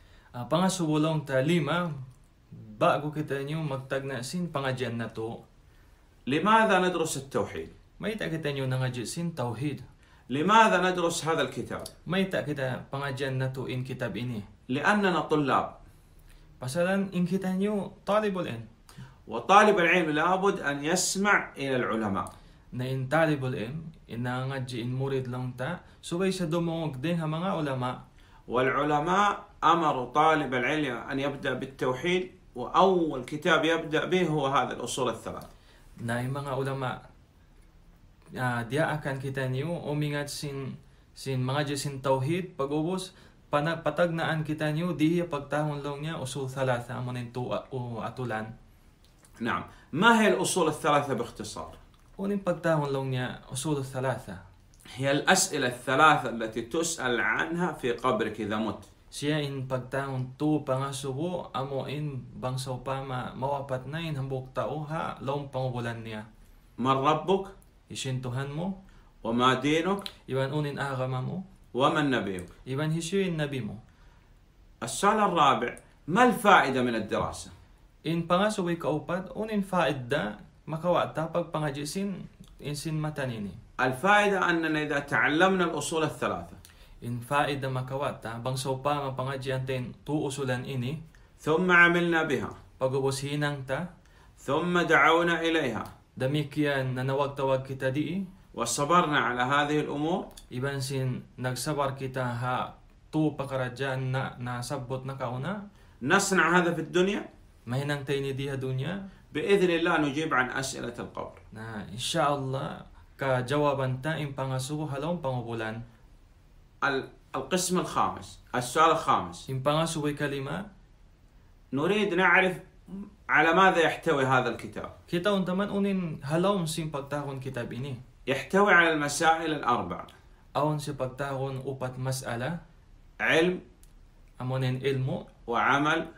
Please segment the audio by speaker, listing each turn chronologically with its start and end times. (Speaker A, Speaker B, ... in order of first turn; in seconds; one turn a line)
Speaker A: 0.4-1.9
Speaker A: 2.5-5.4
Speaker B: 6.3-7.7
Speaker A: 8.0-9.8
Speaker B: 10.3-11.9
Speaker A: 12.1-14.5
Speaker B: 14.7-15.8
Speaker A: 16.6-18.7
Speaker B: 19.3-22.3
Speaker A: 22.8-28.0
Speaker B: 28.5-35.5
Speaker A: 36.0-37.0
Speaker A: 38.4-48.5
Speaker B: 49.4-51.8
Speaker A: 52.2-54.4
Speaker B: 54.9-58.9
Speaker A: 59.1-66.3
Speaker B: 66.8-67.5
Speaker A: 67.9-68.7
Speaker B: 69.2-70.1
Speaker A: 70.3-71.4
Speaker B: 71.8-72.5
Speaker A: 72.7-73.8
Speaker B: 74.8-77.5
Speaker A: 78.1-83.6
Speaker B: 83.8-86.6
Speaker A: 87.0-91.0
Speaker B: 91.4-92.6
Speaker A: 92.8-93.8
Speaker B: 94.4-95.9
Speaker A: 96.2-98.2
Speaker B: 98.6-100.3
Speaker A: 100.5-105.6
Speaker B: 106.0-107.3
Speaker A: 107.7-109.0
Speaker B: 109.3-111.4
Speaker A: 111.5-115.8
Speaker B: 116.8-119.5
Speaker A: 119.5-120.6
Speaker B: 121.7-124.9
Speaker A: 125.1-128.0
Speaker B: 128.3-130.1
Speaker A: 130.6-132.6
Speaker B: 133.2-133.6
Speaker A: 134.4-135.3
Speaker B: 135.5-136.1